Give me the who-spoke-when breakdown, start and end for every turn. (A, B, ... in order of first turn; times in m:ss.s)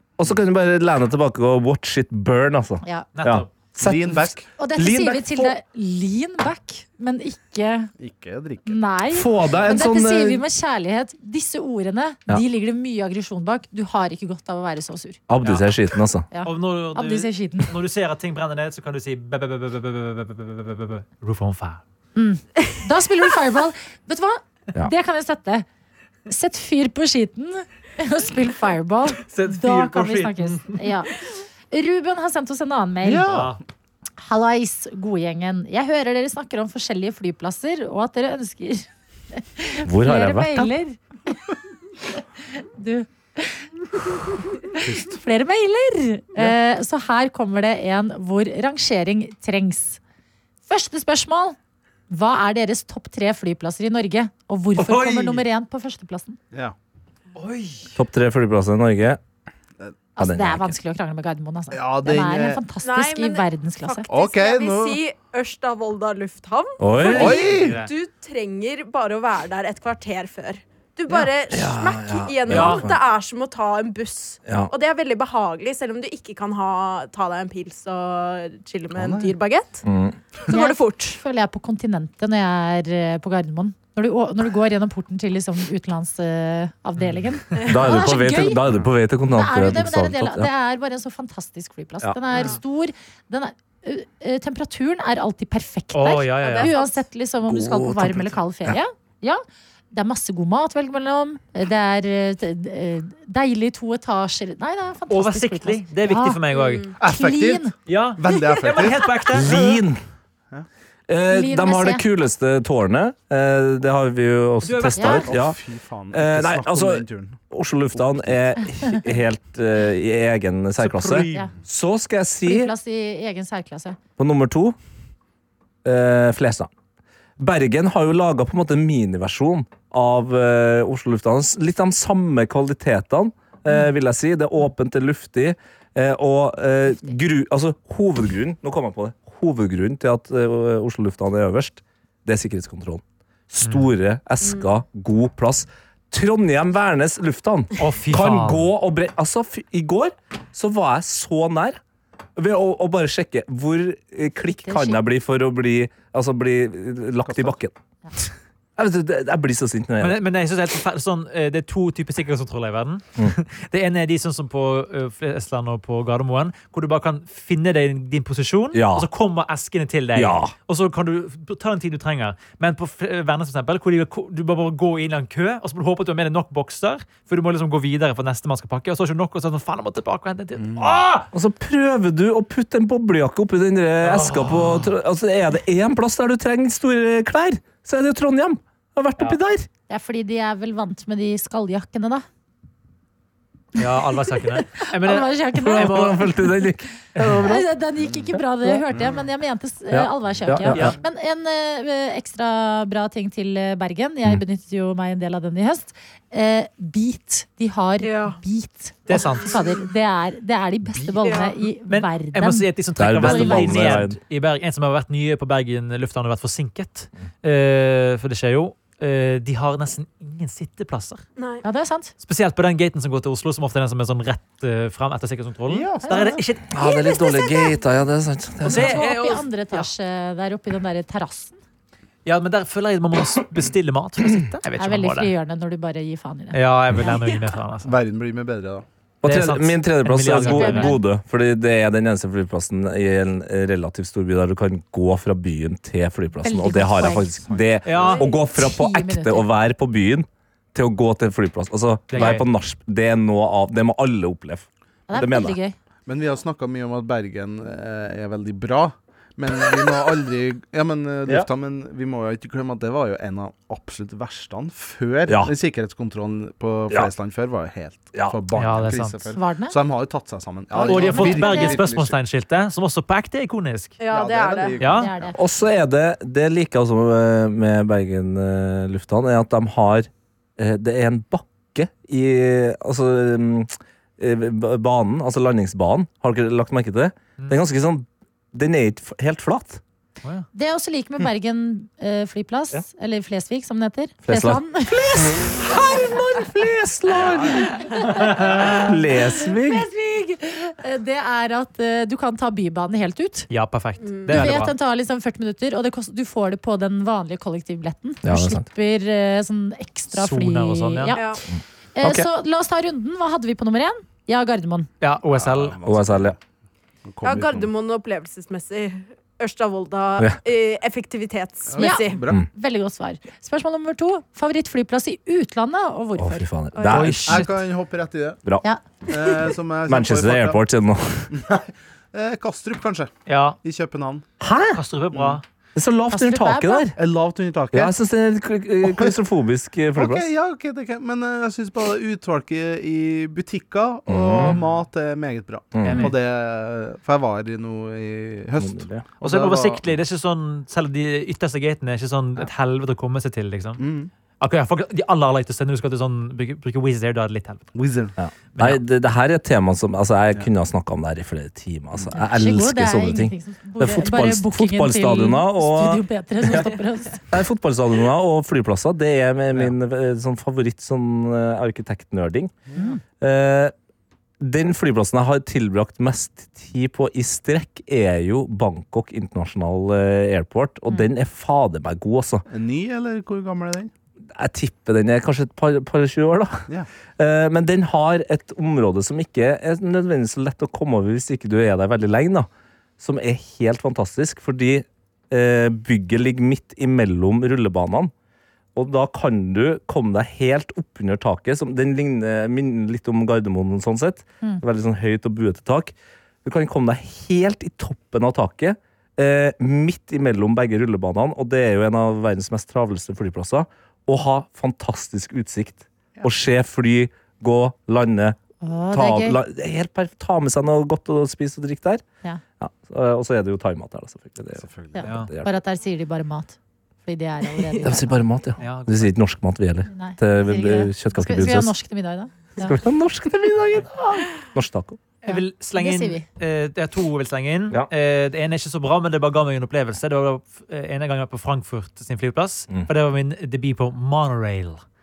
0:00.2-0:05.6 A
0:03.2-0:03.5 B
0:03.8-0:04.5 C
0:04.6-0:07.9 D
0:08.0-0:08.8 C
0:08.6-0:15.2 D
0:09.1-0:10.4 A
0:15.3-0:16.2 A
0:15.4-0:15.8 B
0:16.3-0:17.7 D
0:16.4-0:21.8 B
0:22.2-0:25.6 D
0:26.3-0:33.3 D
0:29.2-0:30.9 B
0:33.0-0:33.6 C
0:33.2-0:33.6 B
0:34.2-0:41.5 D
0:39.8-0:40.7 A
0:42.2-0:50.0 D
0:44.7-0:45.2 C
0:50.7-0:51.6 D
0:52.1-0:56.4 D
0:54.8-0:55.4 B
0:57.4-0:57.9 B
0:58.0-0:59.2 A
1:00.2-1:04.1 D
1:00.2-1:00.8 A
1:01.7-1:02.6 C
1:02.8-1:19.8 E
1:04.1-1:05.0 C
1:06.8-1:07.4 A
1:07.0-1:07.8 C
1:07.1-1:07.9 B
1:11.5-1:13.0 A
1:12.5-1:12.9 B
1:14.4-1:14.7 A
1:18.9-1:19.3 C
1:19.8-1:20.2 A
1:20.5-1:21.2 E
1:20.5-1:28.6 D
1:27.0-1:27.4 B
1:27.5-1:27.9 E
1:27.6-1:30.5 A
1:29.3-1:46.4 D
1:35.9-1:36.7 B
1:36.4-1:37.0 E
1:37.4-1:38.8 A
1:45.1-1:46.9 B
1:46.5-1:46.9 E
1:47.0-1:49.4 C
1:47.0-1:47.7 D
1:47.9-1:49.8 B
1:49.3-1:50.0 A
1:51.1-1:55.6 A
1:51.3-1:52.0 D
1:54.6-1:55.2 B
1:54.9-1:55.3 D
1:55.2-1:57.4 C
1:56.1-2:02.7 A
1:57.9-1:58.4 C
2:00.8-2:01.5 B
2:02.4-2:04.0 D
2:04.2-2:04.8 A
2:05.8-2:06.7 A
2:07.4-2:31.8 A
2:23.6-2:23.9 B
2:27.8-2:28.7 B
2:32.4-2:37.7 A
2:34.5-2:35.0 D
2:37.2-2:37.5 C
2:38.8-2:40.2 A
2:40.0-3:01.3 B
2:48.7-2:49.1 A
2:50.1-2:50.5 A
3:00.6-3:00.9 C
3:01.3-3:09.7 A
3:04.0-3:04.9 B
3:09.9-3:12.2 D
3:13.8-3:16.3 B
3:14.7-3:16.5 D
3:15.5-3:17.7 A
3:17.2-3:34.0 D
3:18.0-3:18.2 C
3:18.3-3:18.8 A
3:18.9-3:19.2 C
3:19.9-3:21.0 A
3:20.7-3:21.0 B
3:28.0-3:28.4 E
3:29.1-3:29.6 B
3:31.2-3:31.5 E
3:31.9-3:41.2 B
3:33.0-3:34.2 A
3:41.4-3:41.6 E
3:41.6-3:42.1 D
3:42.2-3:46.7 B
3:45.7-3:46.4 C
3:46.0-3:47.5 D
3:46.7-3:49.0 A
3:48.6-3:51.6 D
3:48.6-3:49.9 B
3:52.2-3:55.3 B
3:54.8-3:57.1 D
3:56.5-3:57.9 B
3:57.8-3:58.8 C
3:59.2-4:15.6 A
3:59.2-4:00.9 B
4:00.4-4:01.0 D
4:06.4-4:07.6 D
4:07.8-4:08.2 B
4:08.0-4:08.3 E
4:08.5-4:09.5 D
4:12.1-4:12.4 B
4:15.1-4:15.8 D
4:16.1-4:32.2 C
4:25.3-4:25.5 A
4:28.5-4:29.3 B
4:29.3-4:29.8 D
4:30.7-4:31.8 D
4:30.8-4:34.0 B
4:34.0-4:34.8 E
4:34.1-4:35.3 C
4:34.8-4:35.1 B
4:34.9-4:35.4 D
4:35.3-4:49.8 A
4:50.5-4:55.5 D
4:54.2-4:57.7 A
4:57.2-4:57.6 C
4:57.8-5:03.5 D
4:58.1-4:58.5 B
4:58.3-4:59.8 A
5:03.5-5:04.7 B
5:04.0-5:04.4 E
5:04.3-5:11.4 D
5:08.2-5:08.6 A
5:10.1-5:11.2 B
5:11.1-5:11.4 E
5:11.5-5:12.3 A
5:12.0-5:14.9 D
5:15.0-5:15.8 B
5:15.4-5:16.4 C
5:15.8-5:16.4 A
5:17.0-5:17.7 C
5:17.2-5:22.2 E
5:21.7-5:22.4 C
5:21.8-5:26.5 D
5:26.2-5:27.4 A
5:26.9-5:27.6 B
5:27.0-5:28.4 C
5:29.1-5:30.6 C
5:29.8-5:31.4 A
5:31.3-5:34.2 C
5:33.3-5:33.6 B
5:34.4-5:34.8 A
5:34.7-5:35.4 B
5:35.1-5:35.4 C
5:35.7-5:37.0 A
5:36.1-5:36.9 D
5:37.0-5:37.9 C
5:37.7-5:40.3 A
5:38.8-5:39.2 C
5:39.9-5:49.8 C
5:44.1-5:44.6 A
5:44.4-5:44.6 B
5:45.7-5:46.1 A
5:45.8-5:46.1 B
5:48.6-5:49.0 A
5:49.2-5:53.8 B
5:53.8-5:54.1 C
5:54.4-5:57.8 B
5:57.7-5:58.1 C
5:58.2-6:06.7 A
5:58.5-5:58.8 B
6:02.1-6:07.2 D
6:07.3-6:12.5 A
6:12.7-6:13.0 D
6:13.2-6:13.7 A
6:14.4-6:22.4 A
6:22.5-6:23.9 C
6:24.3-6:32.5 A
6:33.0-6:38.1 A
6:38.7-6:45.9 A
6:46.4-6:58.4 A
6:58.6-6:59.4 D
6:58.9-7:02.0 A
7:02.6-7:05.5 A
7:04.6-7:05.1 C
7:04.9-7:08.1 D
7:05.0-7:05.3 B
7:07.8-7:11.7 A
7:08.6-7:09.1 B
7:09.9-7:12.8 D
7:12.6-7:15.0 A
7:15.2-7:24.8 B
7:15.2-7:16.2 D